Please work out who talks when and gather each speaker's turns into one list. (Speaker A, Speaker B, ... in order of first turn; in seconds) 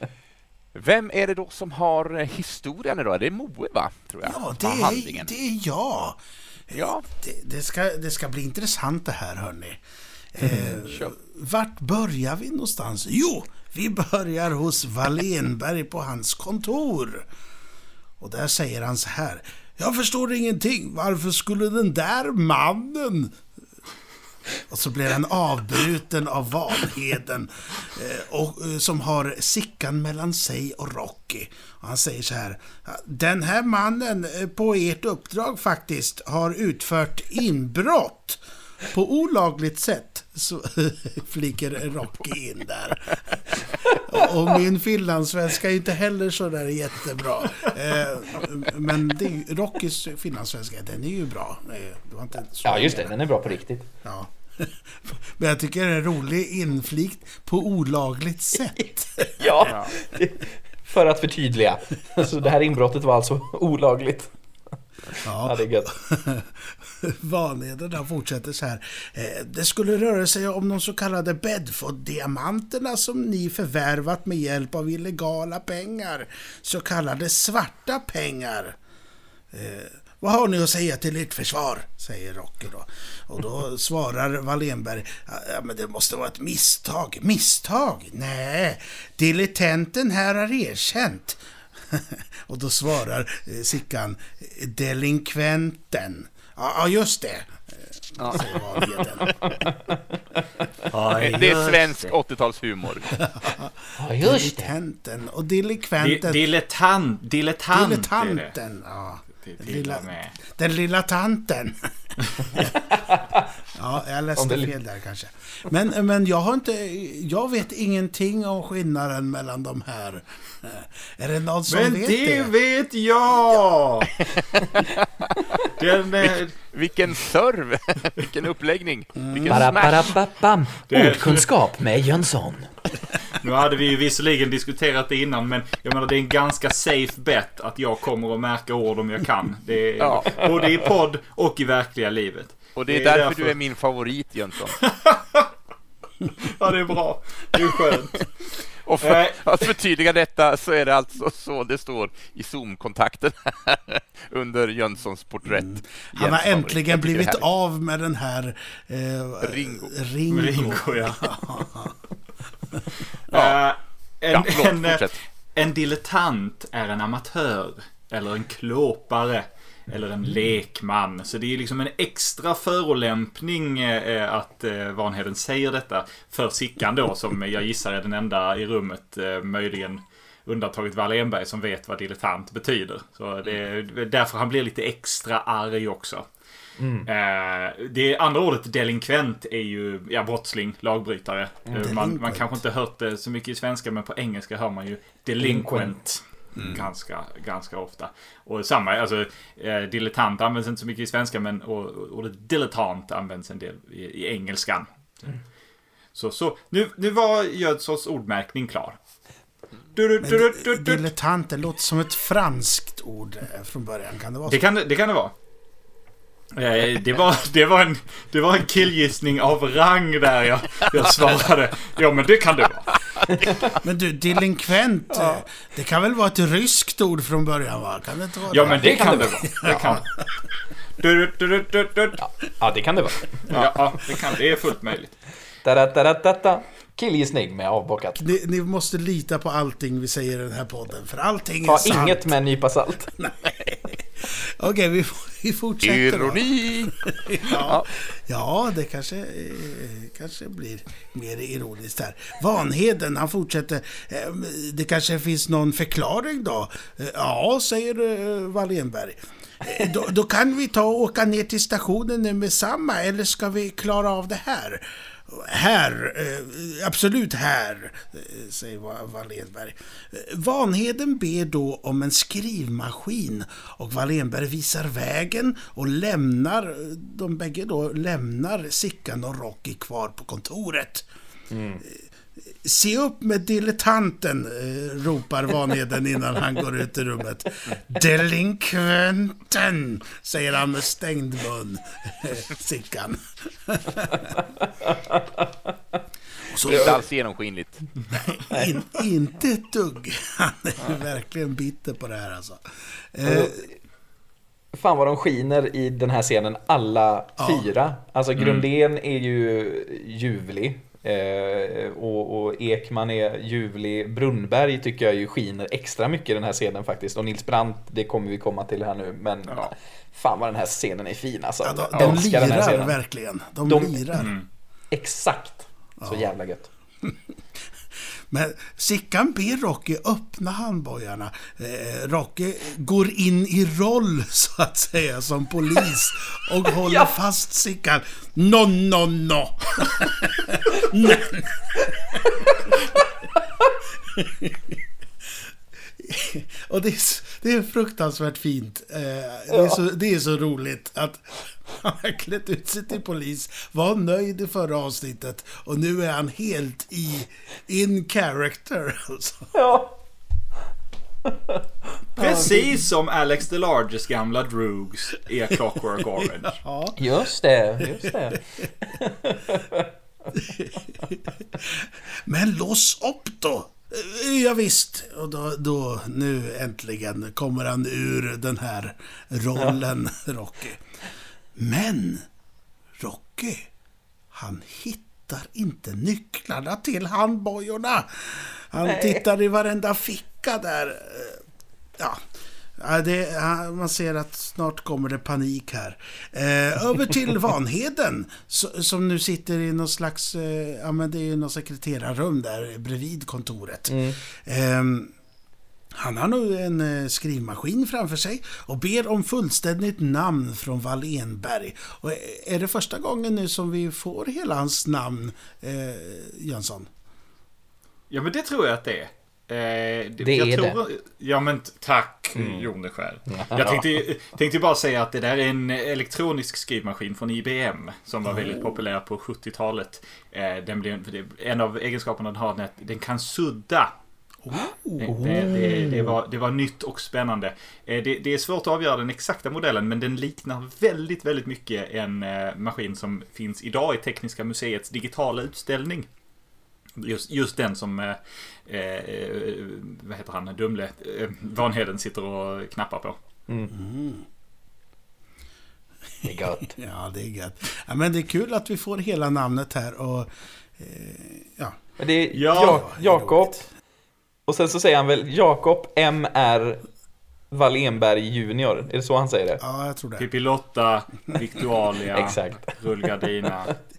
Speaker A: 0.7-5.3, 6.7-7.0, 10.4-11.2, 59.6-59.9, 98.2-99.2, 101.1-103.2, 124.5-125.4, 126.2-130.2, 140.0-140.7, 142.8-144.8, 148.8-157.4, 159.4-159.9, 163.3-163.6, 164.3-165.2, 245.8-247.9, 296.6-297.9, 319.5-319.7, 321.9-322.2
Speaker B: 4.2-6.2, 6.7-9.8, 10.3-17.3, 18.2-23.4, 24.7-53.1, 54.0-59.8, 65.2-78.8, 79.5-99.4, 103.1-106.4, 107.7-112.7, 113.7-122.5, 129.2-129.7, 155.4-162.0, 162.7-163.0, 191.7-192.6, 196.6-196.8, 210.2-214.6, 223.8-230.2, 238.2-242.3, 243.2-281.1, 282.5-294.4, 296.5-297.0, 298.1-302.6, 303.1-303.6, 307.4-307.7, 321.6-324.3, 326.0-326.2, 328.3-342.5, 343.9-344.8, 345.9-359.5, 366.4-367.0, 367.9-368.6, 370.3-380.8, 381.6-382.2, 383.0-383.7, 384.3-391.4, 392.0-392.2, 392.8-405.1, 405.9-416.9, 428.3-428.6, 434.4-436.1, 453.7-454.2, 456.2-461.8, 462.6-463.6, 469.6-470.3
Speaker C: 52.6-53.9, 59.4-64.3, 65.1-65.9, 99.3-100.4, 104.0-104.7, 112.5-113.5, 114.3-114.7, 129.5-132.7, 186.8-187.1, 195.4-195.9, 228.6-229.8, 232.2-233.5, 235.6-238.2, 241.6-243.1, 281.5-281.8, 294.8-295.5, 303.2-303.7, 304.7-323.0, 323.6-324.2, 324.9-326.7, 336.8-337.1, 349.5-349.8, 359.5-360.0, 361.3-361.6, 362.1-362.6, 366.9-369.9, 388.8-389.2, 403.9-404.2, 420.2-420.8, 422.4-422.7, 423.3-423.9, 456.2-456.7, 462.0-463.6, 464.5-466.8, 467.5-469.6, 472.1-472.8
Speaker D: 100.9-102.1, 106.0-108.5, 109.4-110.3, 121.7-124.2, 125.6-126.6, 130.9-131.5, 133.3-143.6, 144.7-145.5, 146.3-148.3, 149.0-149.7, 160.3-161.6, 163.3-186.2, 187.1-205.4, 206.1-209.0, 209.9-211.1, 214.4-215.3, 216.5-223.0, 228.5-230.1, 231.0-232.2, 233.5-235.1, 308.4-308.7, 324.1-324.4, 362.2-366.6, 418.1-433.9, 435.0-446.1, 447.0-453.2, 462.3-462.8, 470.2-473.8